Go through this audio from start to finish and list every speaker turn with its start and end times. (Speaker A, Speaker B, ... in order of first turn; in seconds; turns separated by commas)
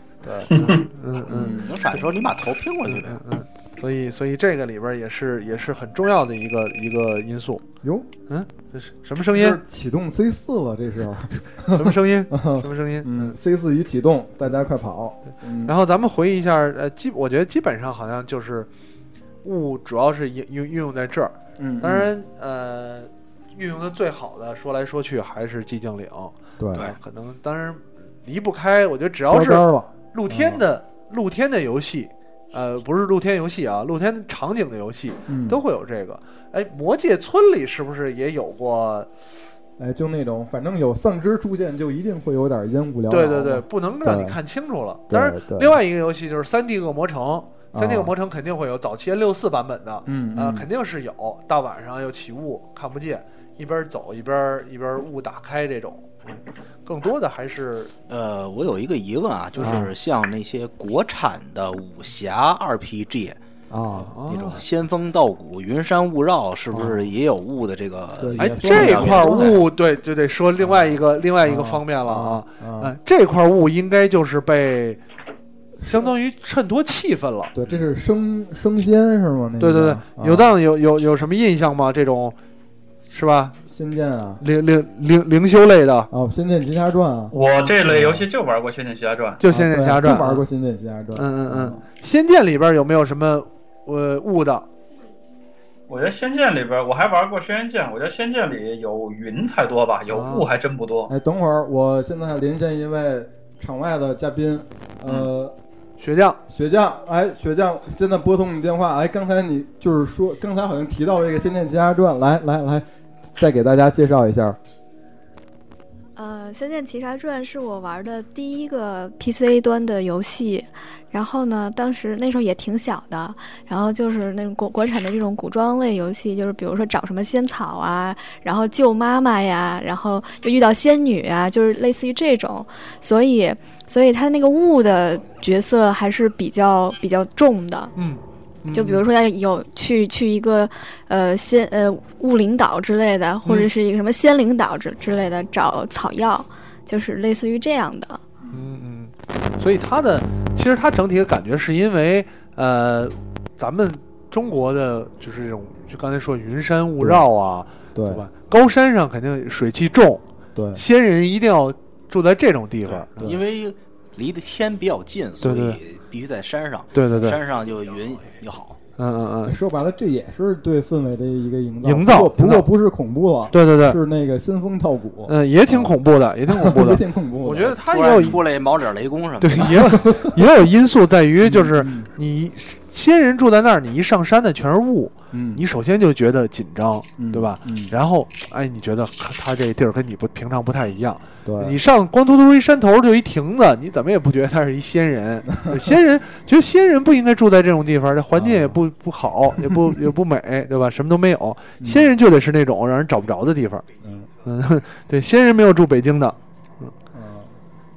Speaker A: 0.2-2.1, Speaker B: 0.5-0.7, Speaker B: 1.3-1.8, Speaker C: 1.4-3.2, Speaker A: 2.9-7.6, Speaker B: 7.8-8.1, Speaker A: 8.3-9.6, Speaker B: 9.3-15.7, Speaker A: 11.7-13.3, Speaker A: 15.6-18.7, Speaker A: 19.4-39.1, Speaker B: 21.6-22.1, Speaker B: 26.6-26.9, Speaker B: 29.3-30.6, Speaker B: 35.3-35.6, Speaker B: 39.8-44.4, Speaker A: 43.1-57.9, Speaker B: 45.1-45.8, Speaker B: 47.7-48.1, Speaker B: 50.0-50.7, Speaker C: 58.1-63.4, Speaker B: 59.6-59.9, Speaker B: 63.7-64.1, Speaker A: 63.9-64.6, Speaker C: 64.2-69.6, Speaker B: 66.7-67.1, Speaker B: 68.2-69.6, Speaker A: 68.4-75.0, Speaker D: 68.7-69.1, Speaker B: 70.6-72.9, Speaker B: 75.8-76.1, Speaker A: 75.8-77.5, Speaker B: 77.5-80.5, Speaker A: 79.6-82.3, Speaker A: 83.1-83.6, Speaker B: 83.7-84.4, Speaker A: 84.4-86.1, Speaker B: 86.1-87.3, Speaker D: 87.3-89.4, Speaker B: 87.9-88.3, Speaker A: 89.4-90.4, Speaker B: 89.4-91.8, Speaker A: 91.1-94.7, Speaker D: 95.9-101.1, Speaker A: 100.1-100.5, Speaker B: 101.1-105.5, Speaker A: 106.0-106.4, Speaker B: 106.5-114.6, Speaker E: 116.2-137.9, Speaker A: 137.9-139.0, Speaker E: 138.7-148.2, Speaker A: 143.4-143.7, Speaker A: 148.5-160.2, Speaker B: 157.9-158.2, Speaker B: 160.5-160.8, Speaker A: 160.7-163.3, Speaker C: 162.9-168.8, Speaker A: 165.4-165.8, Speaker A: 166.9-167.4, Speaker A: 169.0-169.6, Speaker B: 169.4-178.4, Speaker A: 171.8-172.7, Speaker A: 173.5-174.0, Speaker A: 175.3-178.4, Speaker C: 177.6-180.2, Speaker A: 179.4-203.8, Speaker B: 179.7-180.3, Speaker B: 181.4-182.1, Speaker B: 185.3-185.6, Speaker B: 187.2-187.9, Speaker B: 191.4-191.8, Speaker B: 195.7-195.9, Speaker B: 198.3-198.8, Speaker B: 199.6-200.0, Speaker B: 201.8-202.1, Speaker B: 204.0-204.3, Speaker A: 204.4-206.9, Speaker B: 207.1-207.5